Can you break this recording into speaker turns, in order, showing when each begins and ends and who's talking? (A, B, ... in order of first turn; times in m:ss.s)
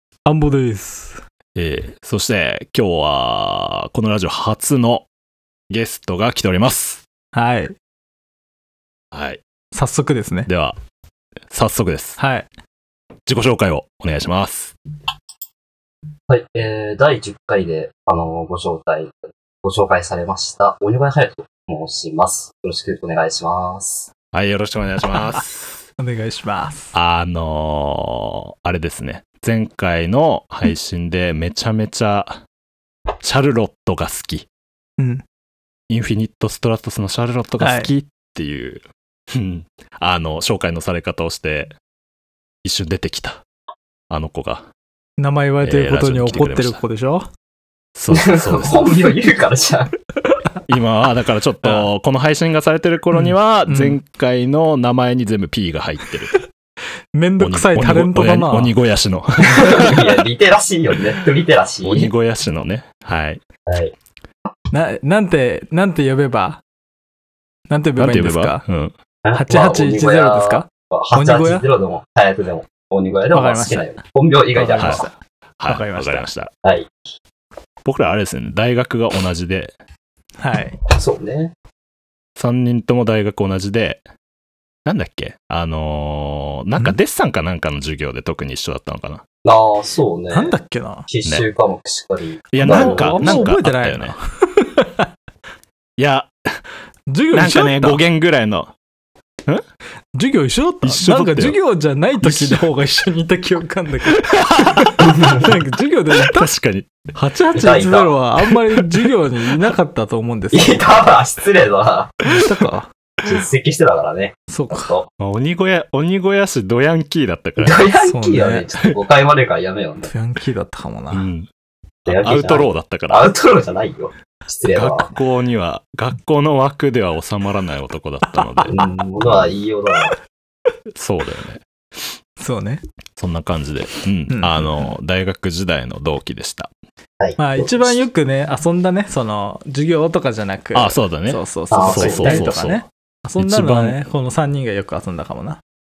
0:00.3-0:01.2 A
0:01.6-0:05.1 B
0:05.7-0:07.0 B
0:07.3-0:07.8 A
0:09.1-0:09.4 B
0:09.7-0:10.5 A
0:10.5-0:10.8 B
0:11.5-0:12.2 B
0:12.2-0:12.5 A
0:13.3-0:14.7 B
0:16.3-0:24.1 C
0:24.3-0:25.7 B
0:26.0-0:26.9 A
0:26.9-0:32.4 B
0:33.2-0:34.5 B
0:35.0-0:35.2 A
0:35.9-0:41.7 B
0:37.6-0:37.9 A
0:42.6-0:43.4 B
0:44.1-0:44.7 B
0:45.2-0:47.3 A
0:45.6-0:46.8 B
0:48.0-0:49.0 B
0:48.1-0:49.9 C
0:50.7-0:56.4 B
0:51.6-0:51.9 A
0:53.1-0:54.0 A
0:57.2-0:58.7 A
0:57.4-1:00.1 B
0:59.5-1:02.1 C
1:01.8-1:03.4 B
1:03.7-1:03.9 C
1:04.7-1:06.6 A
1:07.7-1:08.6 A
1:08.0-1:08.9 B
1:09.2-1:15.0 C
1:09.3-1:11.7 A
1:13.3-1:14.0 A
1:14.5-1:15.1 A
1:14.8-1:15.0 B
1:15.6-1:16.5 B
1:15.7-1:16.3 A
1:16.6-1:16.9 C
1:17.8-1:19.8 B
1:20.4-1:20.8 A
1:20.9-1:21.5 C
1:22.4-1:24.0 B
1:24.9-1:29.2 B
1:29.4-1:30.5 C
1:30.3-1:31.1 A
1:31.1-1:33.5 C
1:32.5-1:34.2 B
1:32.6-1:35.1 A
1:36.0-1:36.6 B
1:37.1-1:38.0 A
1:37.3-1:38.7 B
1:40.2-1:46.5 A
1:40.8-1:41.6 B
1:42.2-1:42.7 B
1:44.1-1:45.1 B
1:45.1-1:45.4 C
1:46.2-1:47.1 B
1:47.1-1:51.0 A
1:47.5-1:48.1 C
1:48.5-1:49.0 B
1:50.5-1:52.2 C
1:52.3-1:52.9 A
1:53.2-1:55.1 C
1:54.5-1:55.0 A
1:55.2-1:57.9 B
1:57.6-2:00.1 C
1:58.0-1:58.7 A
2:00.0-2:01.3 A
2:01.1-2:01.5 B
2:02.1-2:03.3 B
2:02.1-2:05.1 C
2:04.7-2:08.8 B
2:08.4-2:08.8 A
2:08.7-2:10.1 C
2:11.0-2:11.6 B
2:12.4-2:12.8 A
2:13.2-2:16.7 B
2:14.3-2:14.9 A
2:17.2-2:18.0 C
2:17.4-2:25.6 A
2:20.8-2:22.8 B
2:21.7-2:22.5 C
2:23.4-2:24.0 B